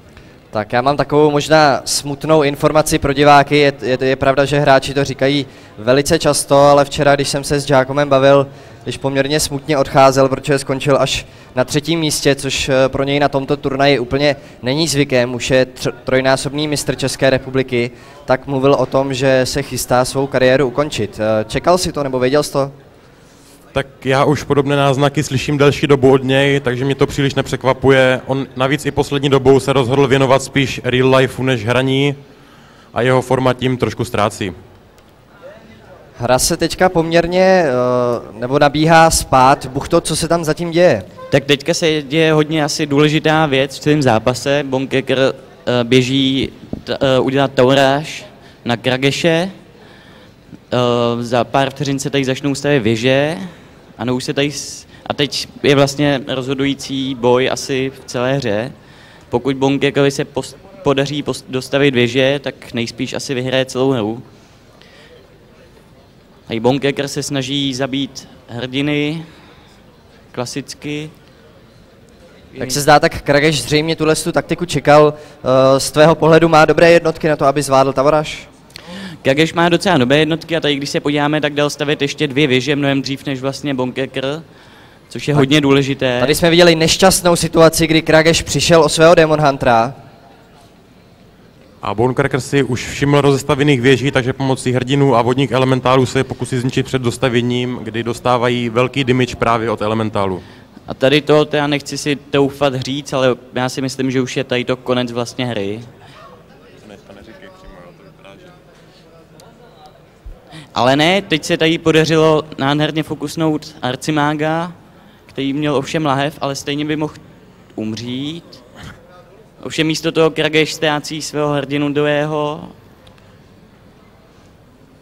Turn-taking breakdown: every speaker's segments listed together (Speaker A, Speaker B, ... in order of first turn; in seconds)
Speaker A: 0.5-22.7, 36.2-41.0, 72.6-78.5, 86.2-89.9
Speaker B: 23.7-32.1, 32.9-34.5, 91.8-100.4, 106.8-108.5
Speaker C: 41.3-49.5, 50.7-58.7, 59.3-64.2, 66.5-69.3, 70.3-71.1, 79.2-84.4, 85.1-86.3, 100.9-105.9, 110.7-114.7, 115.3-117.2, 117.7-118.6, 119.6-122.7